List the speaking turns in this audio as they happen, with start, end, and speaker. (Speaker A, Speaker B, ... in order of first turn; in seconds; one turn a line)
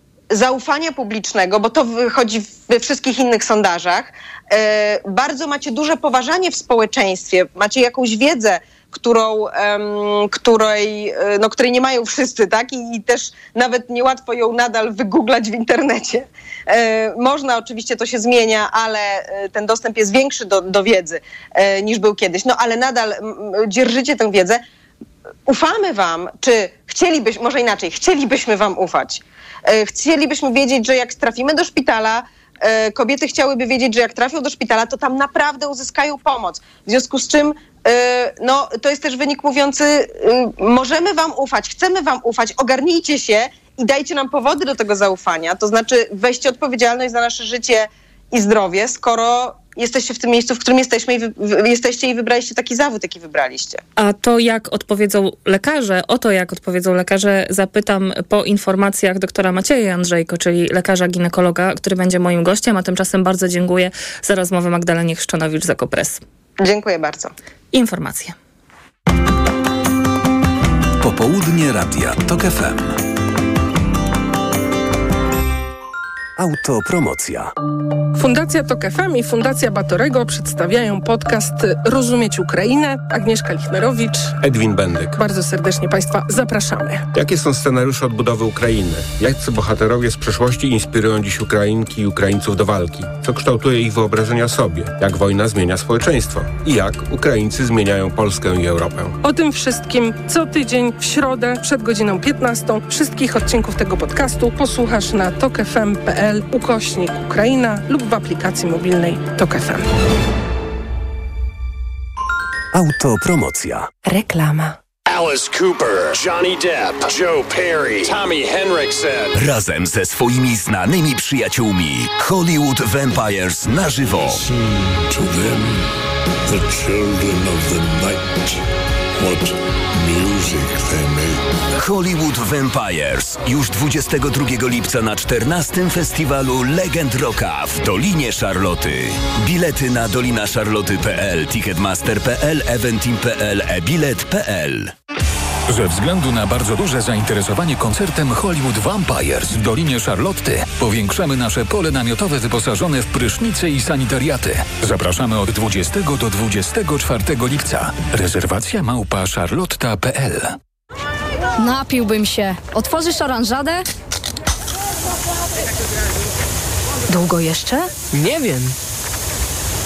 Speaker A: 0.3-24.6
Speaker A: 25.5-53.8
Speaker B: 54.0-66.2
Speaker A: 66.6-67.3
Speaker B: 67.7-68.4
Speaker C: 71.0-73.0
Speaker C: 76.4-77.5
Speaker D: 78.2-84.3
Speaker E: 84.4-85.2
Speaker D: 85.2-87.0
Speaker E: 87.1-99.2
Speaker D: 99.2-109.8
Speaker C: 112.7-113.9
Speaker F: 114.0-114.8
Speaker G: 115.2-115.8
Speaker G: 116.4-117.7
Speaker G: 118.2-118.8
Speaker H: 119.3-124.4
Speaker I: 124.4-125.9
Speaker I: 126.5-128.6
Speaker I: 129.2-131.4
Speaker H: 131.8-144.9
Speaker C: 145.7-160.6
Speaker F: 161.6-163.8
Speaker F: 167.1-167.9